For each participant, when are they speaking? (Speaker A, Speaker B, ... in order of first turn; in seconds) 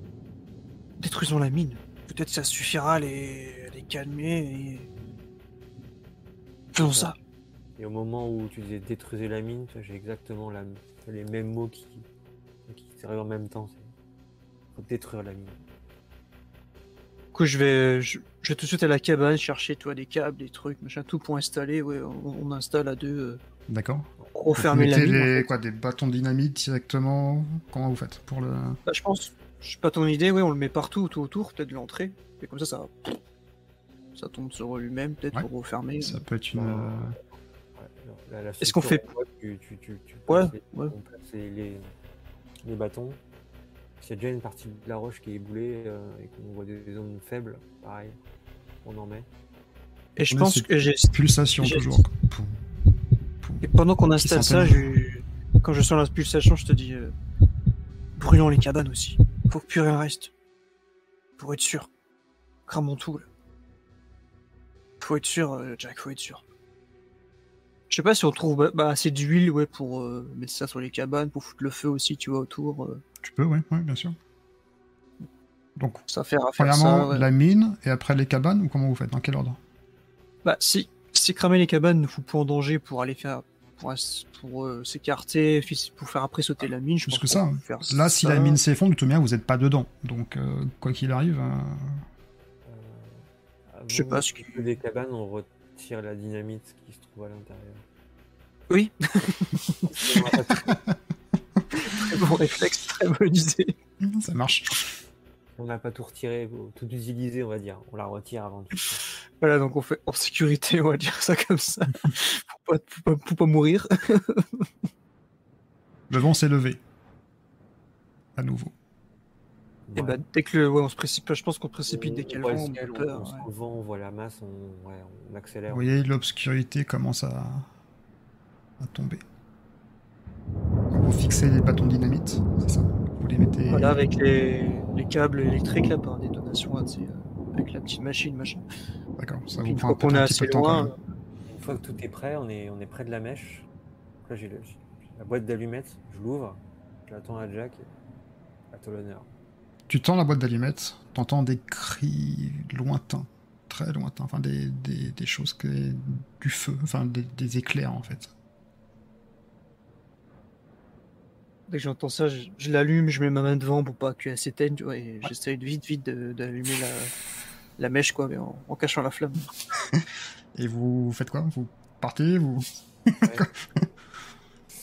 Speaker A: 1.0-4.9, 6.8-7.2, 17.3-23.4, 24.4-25.5, 28.9-33.2, 34.2-36.2, 38.6-39.1, 40.3-40.9, 50.2-52.0, 53.6-57.1, 58.2-60.3, 61.4-61.9, 62.7-63.3, 65.0-66.4, 67.9-73.0, 76.1-77.3, 80.5-88.6, 93.9-94.6, 98.7-100.3, 101.7-103.7, 109.4-114.7, 120.0-123.5, 133.7-138.6, 139.5-141.0, 161.7-167.2, 167.8-169.5
Speaker B: 6.8-7.1, 7.8-12.1, 12.7-13.9, 14.8-15.6, 36.5-41.9, 42.6-43.2, 44.0-48.2, 48.8-49.3, 92.7-97.8, 99.9-100.8, 105.6-109.0, 119.9-120.2, 121.9-125.8, 141.5-143.7, 144.2-147.9, 148.7-149.3, 173.2-173.5
Speaker C: 23.7-28.8, 36.0-37.2, 50.3-52.6, 54.2-55.0, 73.2-74.2, 75.8-76.0, 76.6-79.6, 87.1-92.0, 100.7-101.0, 104.0-104.9, 116.1-116.8, 118.4-118.7, 125.7-127.7, 128.8-129.2, 130.9-134.0, 139.2-140.9, 149.9-158.3, 170.6-173.9